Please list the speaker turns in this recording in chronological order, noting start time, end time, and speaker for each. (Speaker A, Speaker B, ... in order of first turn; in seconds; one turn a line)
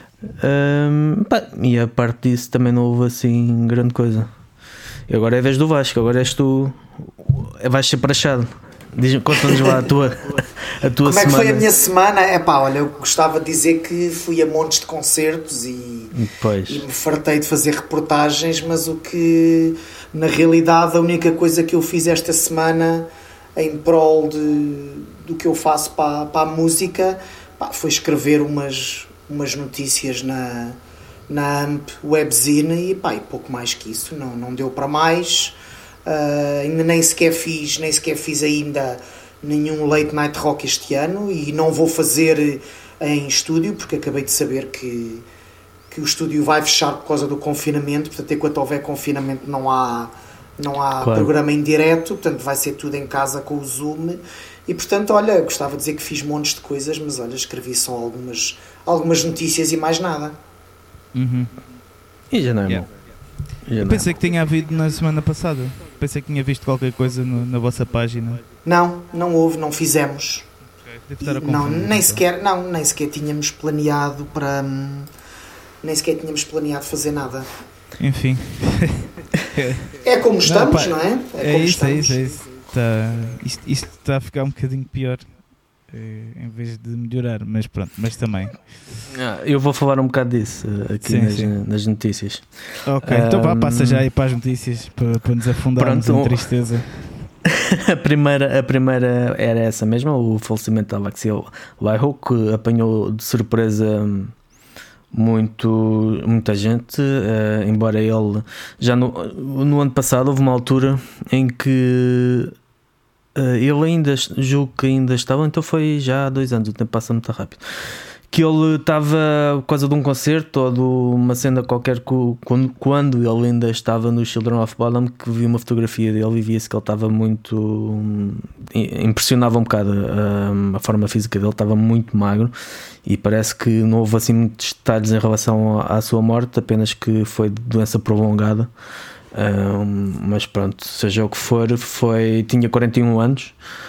Speaker A: 0.4-4.3
Speaker A: 5.1-11.7
Speaker B: 9.5-9.8
Speaker B: 11.0-16.1
Speaker A: 16.1-16.8
Speaker B: 16.7-30.8
Speaker B: 31.3-45.2
Speaker B: 45.9-60.4
Speaker A: 51.0-51.3
Speaker C: 61.1-61.5
Speaker A: 62.3-62.8
Speaker A: 63.6-64.1
Speaker C: 63.8-68.4
Speaker B: 68.6-70.5
Speaker C: 71.0-72.2
Speaker B: 71.2-75.1
Speaker B: 75.8-77.5
Speaker C: 78.0-79.9
Speaker B: 80.0-82.2
Speaker C: 80.4-85.3
Speaker C: 85.9-88.6
Speaker A: 89.1-94.0
Speaker C: 91.0-91.5
Speaker C: 92.8-97.0
Speaker A: 95.8-96.5
Speaker A: 97.4-104.3
Speaker A: 105.1-112.5
Speaker A: 113.3-117.6
Speaker A: 118.3-132.5
Speaker A: 133.0-138.7
Speaker A: 139.3-143.6